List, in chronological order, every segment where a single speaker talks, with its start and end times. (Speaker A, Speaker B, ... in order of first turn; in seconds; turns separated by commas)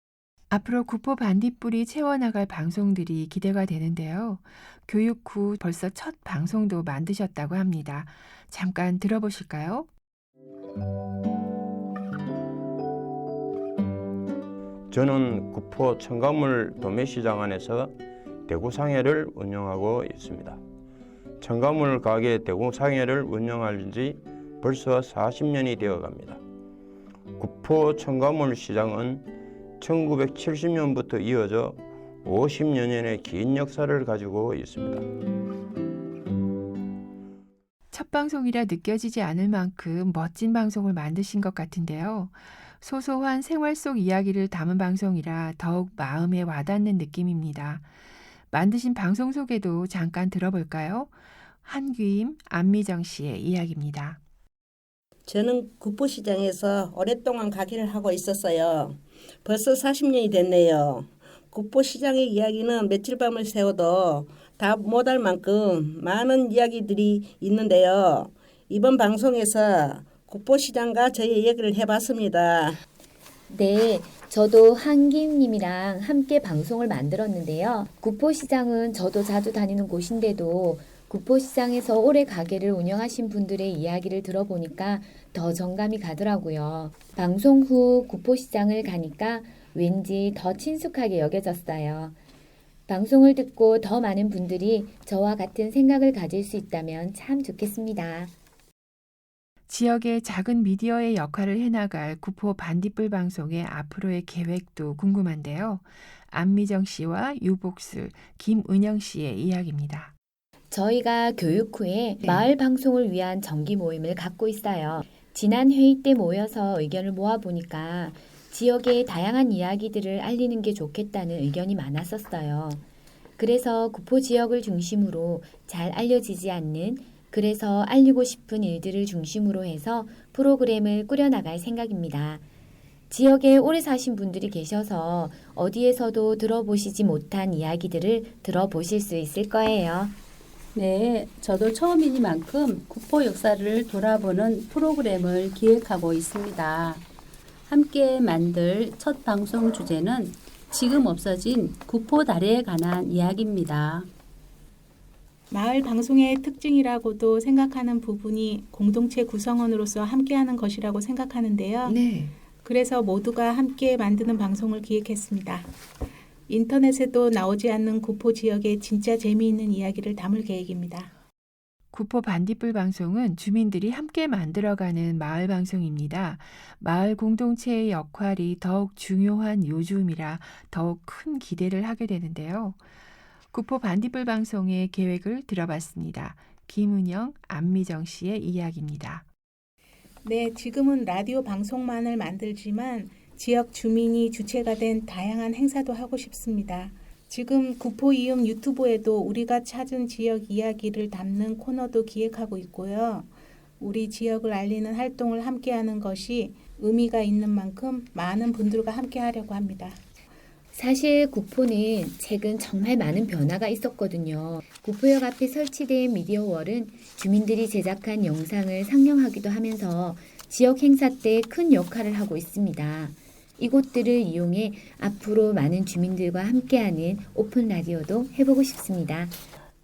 Speaker A: 0.5-9.9, Speaker B: 14.9-17.9, Speaker B: 18.5-20.6, Speaker B: 21.4-26.4, Speaker B: 27.4-29.3, Speaker B: 29.8-35.0, Speaker A: 37.9-47.9, Speaker A: 48.5-54.2, Speaker C: 55.3-72.8, Speaker D: 73.5-92.2, Speaker D: 92.9-98.3, Speaker A: 99.7-110.2, Speaker D: 110.7-122.8, Speaker D: 123.4-132.4, Speaker D: 133.1-140.2, Speaker E: 140.8-147.1, Speaker E: 147.7-154.1, Speaker F: 155.5-162.0, Speaker A: 161.9-162.3, Speaker F: 162.6-165.7, Speaker F: 166.5-171.1, Speaker A: 171.9-182.8, Speaker A: 183.5-189.3, Speaker F: 190.2-210.0, Speaker D: 210.7-229.4